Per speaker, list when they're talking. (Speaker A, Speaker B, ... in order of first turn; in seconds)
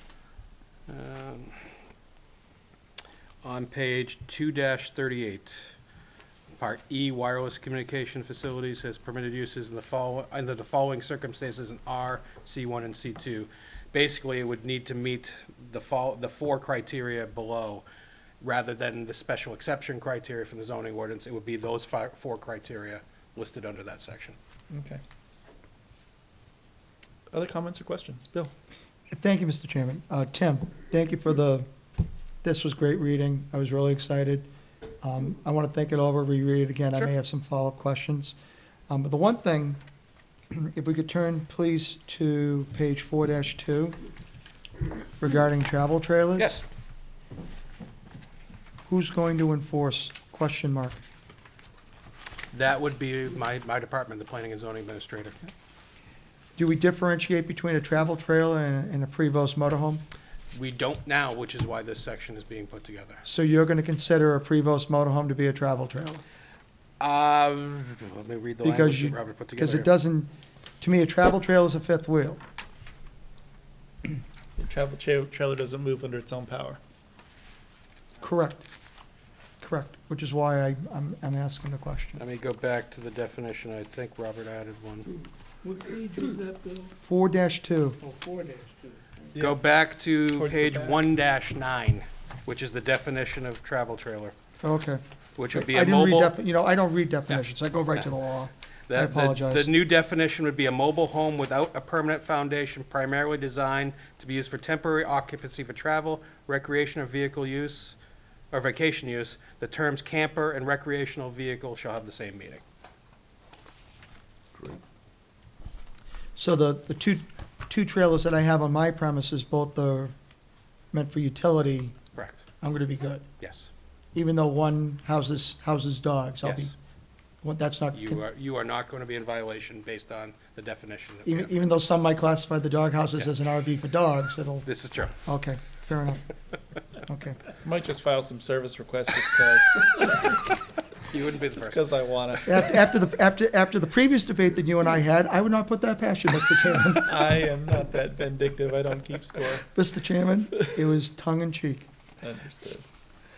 Speaker A: 0.9-1.8, 3.4-5.8, 6.6-17.9, 18.4-24.4, 52.5-55.4, 60.5-63.2, 67.0-69.9, 82.2-85.1, 89.4-94.3, 95.4-96.3, 98.9-108.0, 108.5-112.6, 122.2-122.4, 123.4-123.7, 126.4-126.7, 127.9-131.5, 134.7-135.2, 141.1-141.9
Speaker B: 24.7-25.0, 27.3-28.5, 74.6-76.8, 89.3-89.6, 90.4-91.0, 137.6-140.6, 141.6-142.7, 147.1-149.7, 152.2-152.8
Speaker C: 29.1-31.7, 32.4-34.5, 35.0-38.4, 38.9-39.8, 40.5-44.0, 45.2-46.6, 48.9-51.0, 56.6-60.0, 63.2-66.2, 68.6-70.3, 70.8-72.4, 78.2-78.7, 79.6-82.2, 87.0-88.0, 94.6-95.0, 95.5-99.7, 116.4-120.1, 120.9-122.0, 122.6-123.2, 124.2-126.7, 127.4-128.2, 131.2-134.7, 135.2-136.3, 137.1-137.4, 142.5-147.2, 149.7-151.9
Speaker D: 85.7-86.9, 88.1-88.9